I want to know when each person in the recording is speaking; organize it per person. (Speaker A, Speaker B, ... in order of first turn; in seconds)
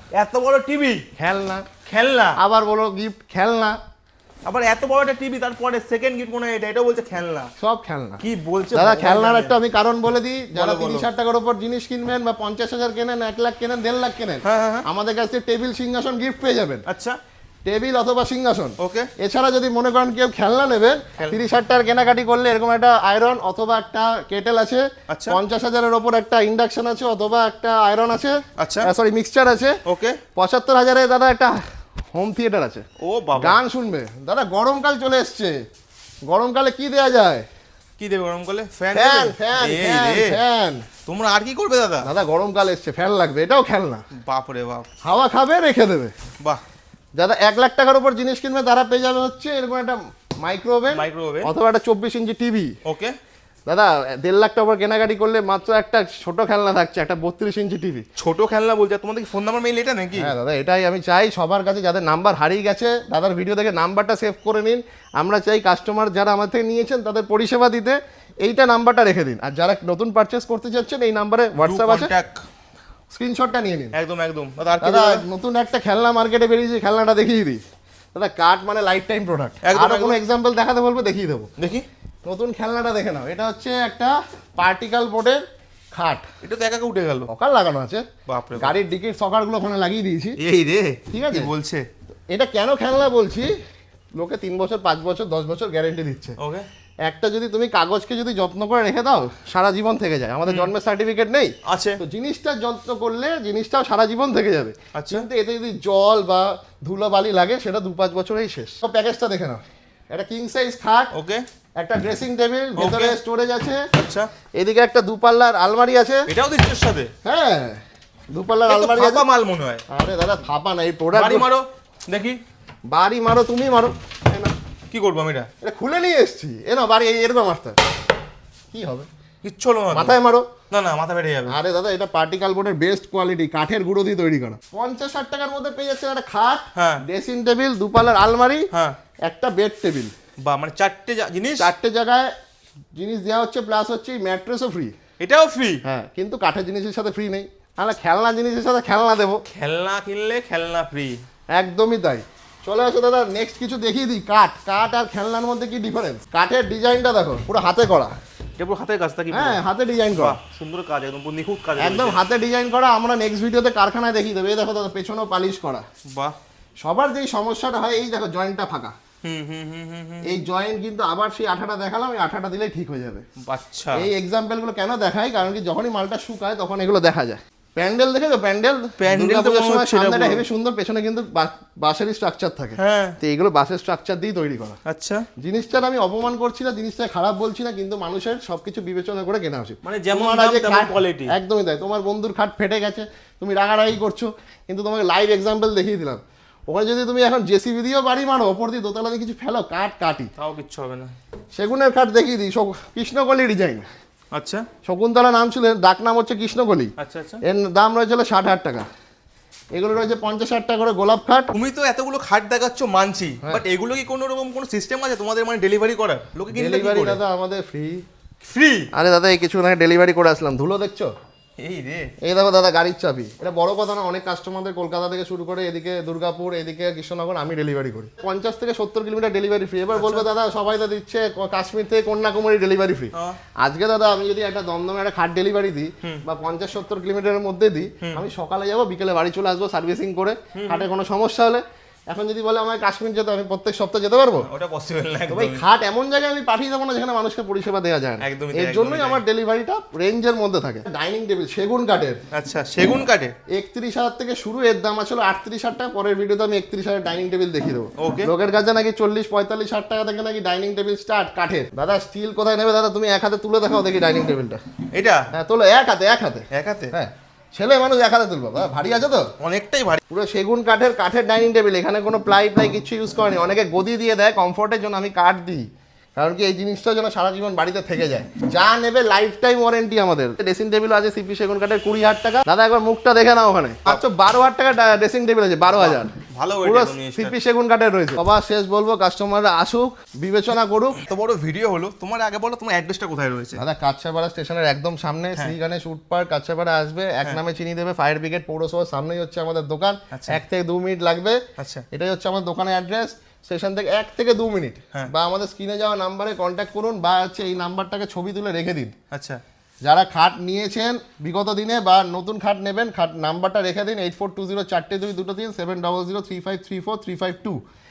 Speaker A: 0.1-1.0, 1.9-2.4, 4.4-7.5, 8.2-9.5, 10.5-11.1, 14.4-14.8, 16.9-17.2, 18.8-19.1, 25.1-25.4, 28.6-28.9, 29.8-30.2, 33.0-33.6, 38.0-40.4, 41.0-42.1, 44.1-44.9, 50.9-51.5, 52.8-53.1, 58.1-60.3, 71.6-72.4, 73.9-75.2, 79.6-80.2, 81.6-81.9, 86.4-87.3, 88.3-88.8, 90.4-91.8, 96.4-96.7, 100.5-100.7, 101.6-102.0, 104.9-105.3, 111.1-111.4, 112.8-113.2, 113.9-114.3, 116.3-117.1, 118.7-119.8, 121.1-122.4, 124.9-125.5, 129.4-130.2, 130.7-131.5, 136.8-137.0, 140.4-141.7, 145.2-145.8, 149.5-151.2, 158.6-159.6, 160.1-162.2, 166.1-166.4, 169.2-170.4, 173.4-174.1, 179.0-180.4, 182.8-183.2, 184.8-185.2, 189.8-191.3, 200.4-201.1, 204.3-204.7, 207.0-207.4, 211.5-217.2, 218.4-218.9, 221.6-222.1, 229.9-230.3, 240.5-240.9, 244.4-245.6, 248.2-249.2, 252.3-253.3, 258.0-258.3, 264.9-265.3, 266.5-266.9, 269.4-270.0, 285.7-287.4, 291.0-293.6, 300.1-300.4, 301.6-301.8, 309.1-309.4
Speaker B: 1.2-1.7, 2.4-3.8, 7.6-8.2, 8.7-16.8, 17.6-29.8, 30.3-31.6, 32.1-32.8, 33.4-35.6, 36.2-37.5, 38.9-40.8, 42.0-44.0, 45.0-46.1, 47.1-52.7, 53.6-58.0, 60.2-72.1, 73.1-73.9, 74.8-77.6, 78.1-81.5, 82.2-85.4, 85.9-86.2, 87.3-88.0, 88.6-90.4, 91.1-91.5, 92.3-93.5, 94.2-96.4, 97.0-111.1, 111.8-113.9, 114.5-116.3, 117.2-117.8, 118.3-119.2, 119.9-121.5, 122.9-124.5, 125.6-127.8, 128.7-129.1, 129.9-130.5, 131.5-138.7, 139.2-140.1, 141.6-142.3, 142.9-144.9, 145.8-149.4, 151.5-158.1, 159.3-160.4, 161.8-165.8, 166.8-168.9, 170.2-173.2, 173.9-184.8, 185.4-200.3, 201.5-203.8, 204.8-208.9, 209.7-211.5, 216.5-218.0, 218.9-221.1, 222.2-244.5, 245.3-252.2, 253.5-264.6, 265.3-269.3, 270.1-286.1, 286.6-291.0, 293.5-301.4, 301.9-308.9, 309.8-317.6